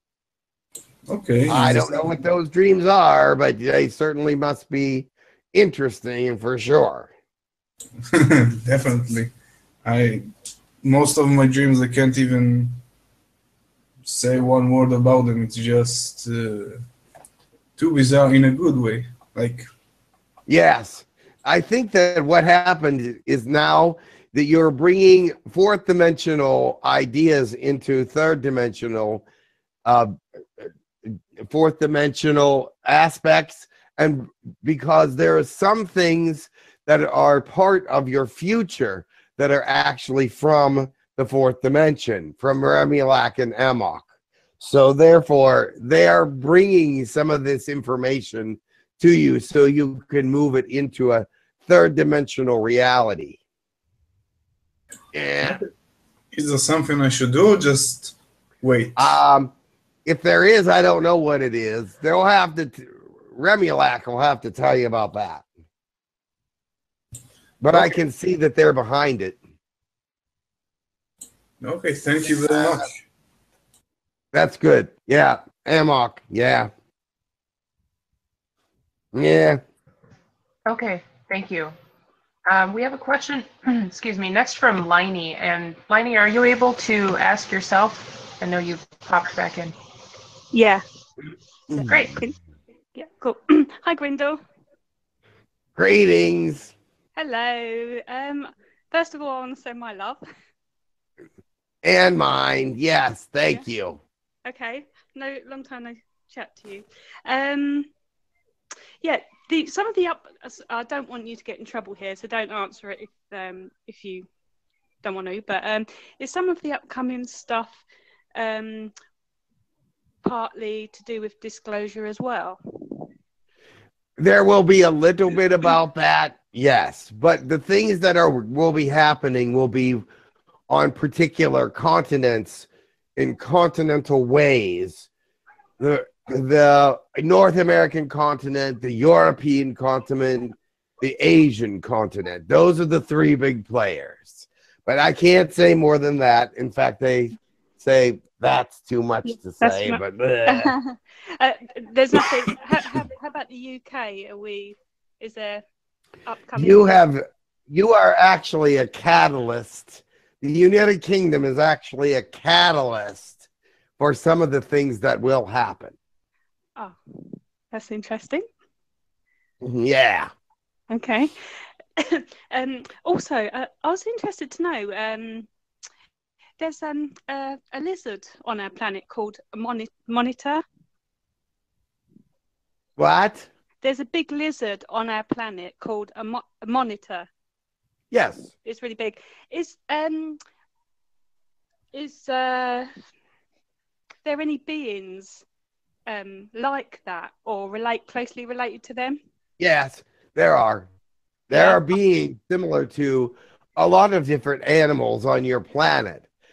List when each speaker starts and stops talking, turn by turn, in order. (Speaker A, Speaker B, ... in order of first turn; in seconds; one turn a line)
Speaker A: 1.1-2.0
Speaker B: 1.5-7.1
Speaker A: 8.1-9.3
Speaker A: 9.8-10.2
Speaker A: 10.8-12.8
Speaker A: 14.0-16.8
Speaker A: 17.8-19.7
Speaker B: 20.5-29.2
Speaker B: 29.9-44.1
Speaker B: 44.6-53.4
Speaker B: 55.1-55.6
Speaker A: 56.3-59.2
Speaker B: 59.0-59.5
Speaker B: 60.1-65.5
Speaker B: 67.6-69.4
Speaker A: 71.6-73.0
Speaker B: 72.3-72.8
Speaker B: 74.3-76.7
Speaker B: 79.1-79.6
Speaker C: 80.7-81.7
Speaker C: 82.5-89.8
Speaker D: 90.5-90.8
Speaker B: 91.7-92.1
Speaker D: 91.7-92.3
Speaker D: 93.0-94.4
Speaker B: 95.8-96.7
Speaker D: 97.2-100.2
Speaker B: 101.8-104.0
Speaker D: 104.5-107.9
Speaker D: 109.0-114.3
Speaker D: 115.0-117.8
Speaker D: 118.4-118.9
Speaker D: 120.2-122.6
Speaker B: 124.2-130.1
Speaker B: 130.7-135.1
Speaker B: 135.8-150.7
Speaker D: 149.3-155.6
Speaker D: 156.3-157.0
Speaker B: 156.6-163.4
Speaker B: 164.0-165.9
Speaker D: 167.7-168.4
Speaker B: 169.6-170.3
Speaker D: 170.9-171.3
Speaker D: 172.0-175.5
Speaker D: 176.6-180.6
Speaker B: 183.0-183.5
Speaker D: 183.8-187.3
Speaker B: 188.1-188.5
Speaker D: 188.6-190.4
Speaker D: 191.9-192.9
Speaker D: 194.2-195.4
Speaker D: 196.1-199.2
Speaker B: 199.6-200.9
Speaker B: 201.5-206.2
Speaker D: 201.5-201.9